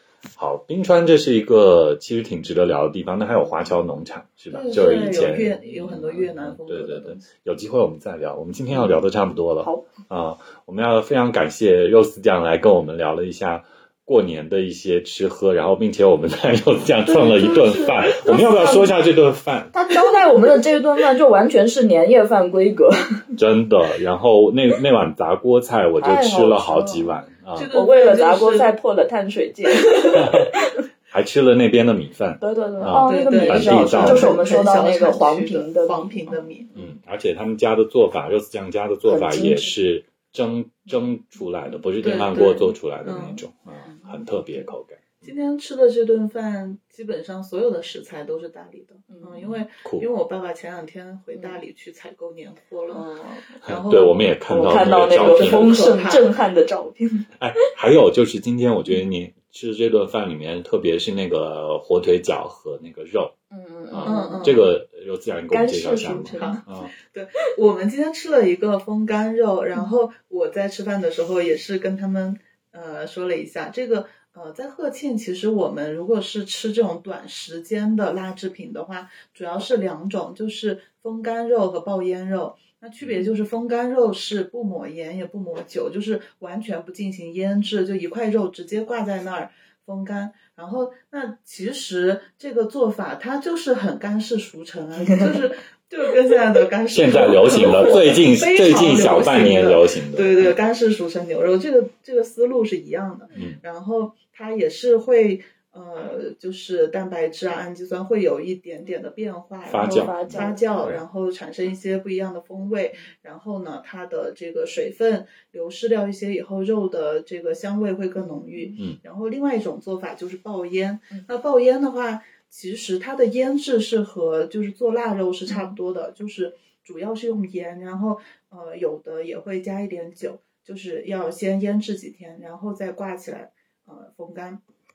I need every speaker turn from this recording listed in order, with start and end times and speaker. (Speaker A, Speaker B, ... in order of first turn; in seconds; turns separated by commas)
Speaker A: 0.3-19.7, Speaker B: 4.5-7.3, Speaker C: 9.6-9.9, Speaker C: 17.1-18.9, Speaker C: 19.7-23.2, Speaker A: 23.4-27.7, Speaker C: 26.0-27.2, Speaker B: 27.5-28.7, Speaker C: 27.7-30.8, Speaker A: 30.1-30.5, Speaker A: 31.1-34.4, Speaker C: 32.4-36.9, Speaker B: 32.9-36.7, Speaker A: 36.7-45.3, Speaker C: 39.0-39.7, Speaker B: 42.0-43.4, Speaker C: 43.8-44.7, Speaker B: 45.2-56.3, Speaker C: 49.1-49.5, Speaker A: 49.8-50.1, Speaker C: 51.3-51.6, Speaker C: 52.9-53.5, Speaker A: 53.6-55.8, Speaker C: 54.5-57.3, Speaker A: 57.4-63.3, Speaker C: 63.5-64.6, Speaker A: 63.9-66.9, Speaker B: 64.0-64.7, Speaker C: 65.5-66.6, Speaker B: 66.2-134.6, Speaker C: 95.0-95.5, Speaker A: 96.9-100.5, Speaker A: 103.3-103.6, Speaker A: 109.7-111.0, Speaker C: 109.8-110.7, Speaker C: 118.2-118.8, Speaker C: 125.5-125.8